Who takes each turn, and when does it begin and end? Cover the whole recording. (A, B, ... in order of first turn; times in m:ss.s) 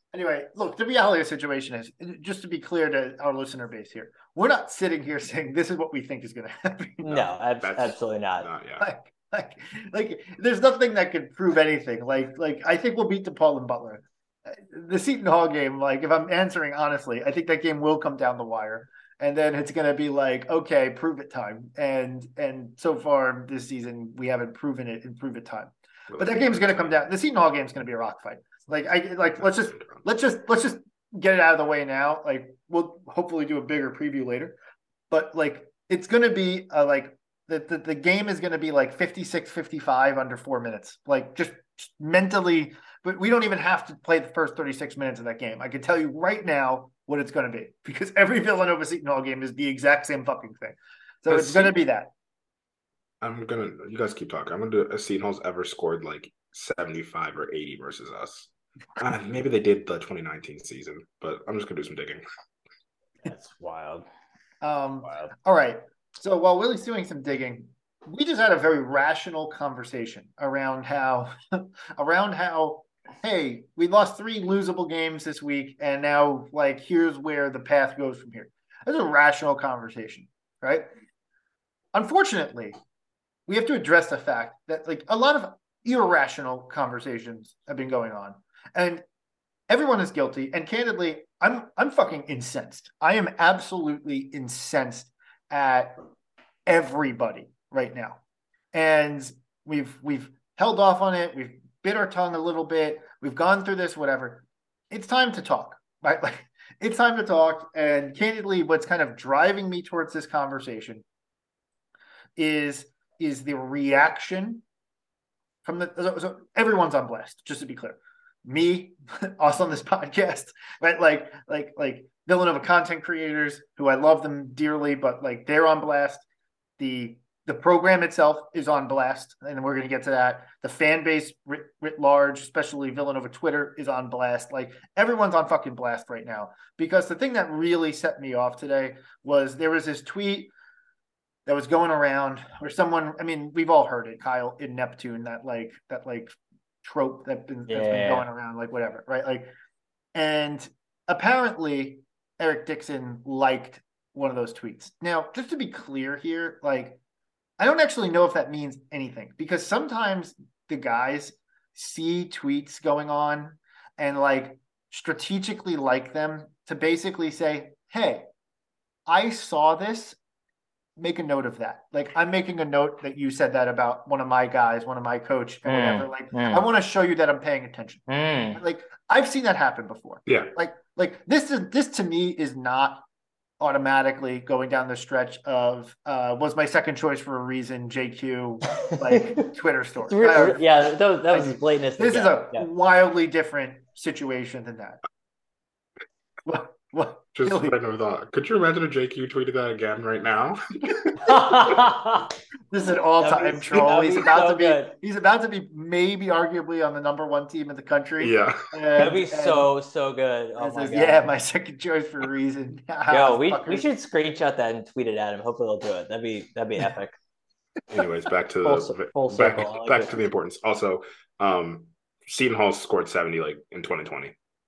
0:00.1-0:07.1 A
0:07.0-0:08.5 B
0:07.1-0:08.8 C
0:08.8-0:34.6 A
0:26.1-0:27.0 C
0:29.5-0:30.0 C
0:35.1-0:52.1 A
0:51.3-0:51.8 C
0:53.2-1:02.2 C
1:03.2-1:04.0 B
1:04.6-1:20.9 A
1:05.0-1:05.3 B
1:21.9-1:22.8 A
1:23.5-1:29.0 A
1:29.7-1:36.0 A
1:36.6-1:38.2 A
1:38.7-1:51.0 A
1:52.4-1:54.6 A
1:55.6-2:06.2 A
2:06.8-2:20.5 A
2:21.4-2:29.5 A
2:27.7-2:28.2 B
2:30.1-2:37.0 A
2:37.6-2:48.3 A
2:49.0-2:50.2 A
2:51.0-3:03.0 A
2:55.6-2:56.7 B
2:58.1-2:58.6 B
3:00.3-3:00.5 C
3:03.6-3:10.7 A
3:08.8-3:09.4 B
3:10.1-3:12.7 B
3:11.3-3:15.0 A
3:16.4-3:17.8 A
3:17.3-3:21.2 C
3:21.2-3:22.3 B
3:22.7-3:29.7 A
3:23.2-3:24.9 B
3:28.2-3:28.6 C
3:29.0-3:31.3 B
3:30.6-3:33.9 A
3:33.1-3:37.2 B
3:37.9-3:44.4 C
3:38.6-3:40.2 B